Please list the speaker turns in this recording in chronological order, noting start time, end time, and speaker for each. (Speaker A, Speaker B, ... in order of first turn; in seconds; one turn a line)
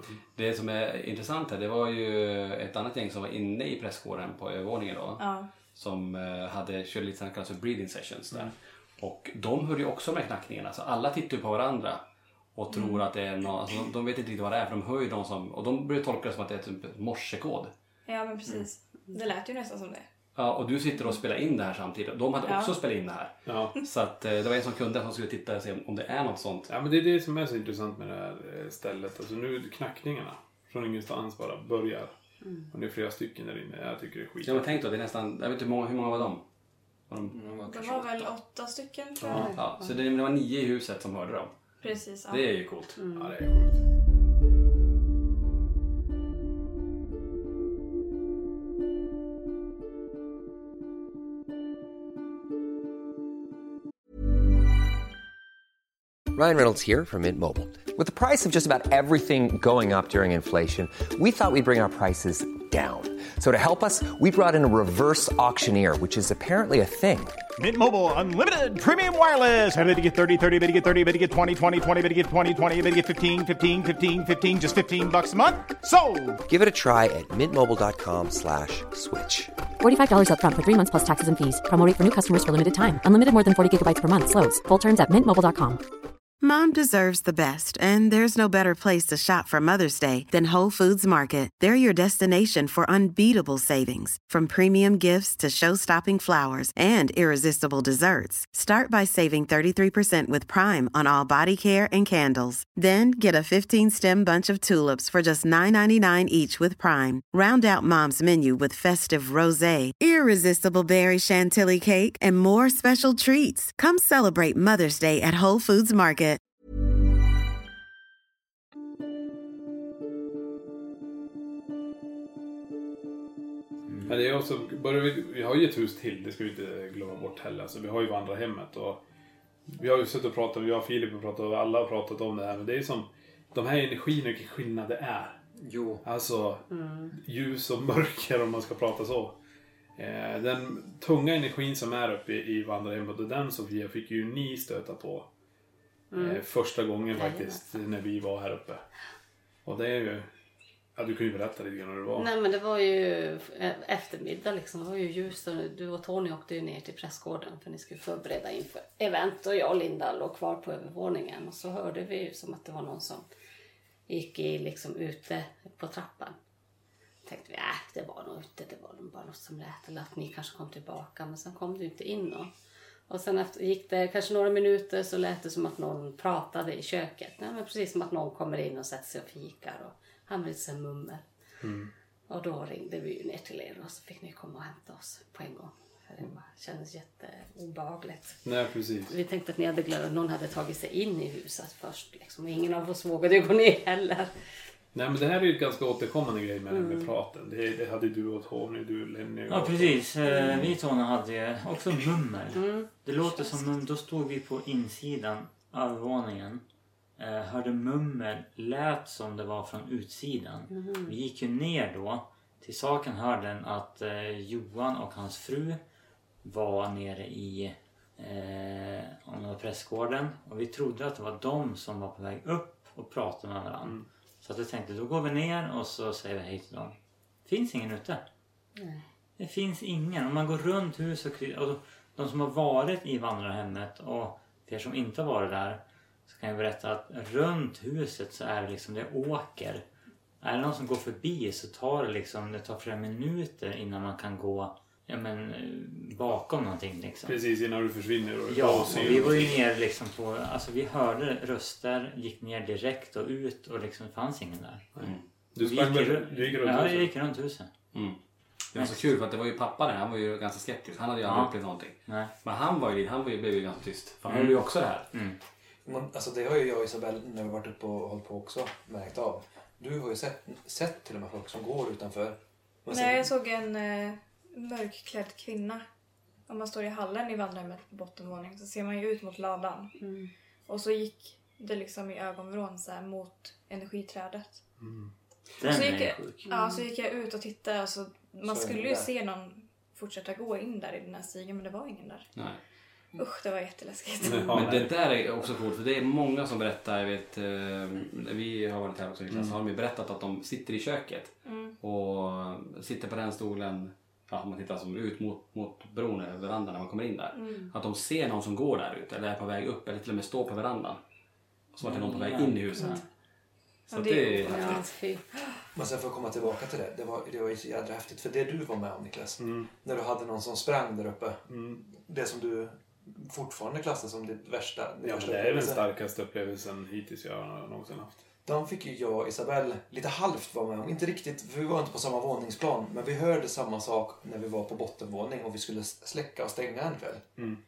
Speaker A: 0.3-12.0
Speaker B: 5.2-5.5
Speaker A: 12.6-17.7
Speaker B: 18.1-20.1
Speaker A: 20.3-26.7
Speaker B: 22.4-22.8
Speaker C: 23.4-23.7
Speaker C: 26.7-32.1
Speaker D: 32.4-32.7
Speaker C: 32.7-34.7
Speaker A: 34.4-36.4
Speaker A: 37.1-37.4
Speaker E: 37.3-38.3
Speaker B: 37.6-39.5
Speaker D: 39.3-39.9
Speaker A: 39.4-41.5
Speaker B: 41.8-42.5
Speaker A: 42.3-43.0
Speaker D: 43.0-43.3
Speaker C: 43.1-43.7
Speaker F: 56.3-67.4
Speaker G: 67.5-76.4
Speaker F: 76.5-79.5
Speaker H: 79.8-85.8
Speaker I: 86.4-116.4
Speaker C: 124.0-129.0
Speaker C: 129.7-135.4
Speaker E: 135.6-136.0
Speaker C: 136.0-139.3
Speaker D: 136.7-137.1
Speaker C: 140.0-145.3
Speaker D: 146.1-146.4
Speaker C: 146.1-148.8
Speaker D: 147.1-147.6
Speaker C: 149.7-150.3
Speaker C: 150.9-152.3
Speaker D: 152.1-163.3
Speaker D: 164.1-166.4
Speaker D: 167.2-172.5
Speaker D: 173.1-181.3
Speaker C: 181.6-181.9
Speaker D: 182.3-188.4
Speaker C: 188.4-189.2
Speaker D: 189.1-194.3
Speaker C: 194.9-200.0
Speaker D: 196.7-197.1
Speaker J: 199.5-206.6
Speaker D: 202.5-202.9
Speaker J: 207.2-215.8
Speaker D: 210.7-211.1
Speaker J: 216.4-228.2
Speaker D: 228.8-229.0
Speaker J: 229.4-239.8
Speaker J: 240.4-247.4
Speaker C: 247.2-249.6
Speaker J: 248.5-254.8
Speaker C: 254.9-257.1
Speaker J: 255.6-257.7
Speaker A: 257.9-258.2
Speaker A: 258.7-265.1
Speaker J: 258.8-259.0
Speaker J: 261.2-261.5
Speaker J: 262.1-262.3
Speaker J: 264.3-264.6
Speaker J: 265.1-265.4
Speaker E: 265.9-273.3
Speaker B: 272.9-275.8
Speaker B: 276.5-279.9
Speaker D: 280.0-280.3
Speaker B: 280.7-284.6
Speaker C: 284.8-285.1
Speaker J: 285.6-286.4
Speaker B: 285.6-292.3
Speaker D: 286.5-286.8
Speaker E: 288.4-289.1
Speaker B: 293.1-294.7
Speaker C: 294.2-294.9
Speaker A: 294.5-311.0
Speaker C: 299.3-299.6
Speaker B: 301.4-301.8
Speaker B: 307.3-307.7
Speaker A: 311.7-313.0
Speaker J: 311.9-312.9
Speaker D: 312.8-313.0
Speaker A: 313.9-314.8
Speaker B: 313.9-314.9
Speaker D: 314.5-315.2
Speaker E: 315.7-325.8
Speaker C: 319.4-319.7
Speaker C: 321.5-321.8
Speaker C: 325.0-328.2
Speaker E: 328.4-337.2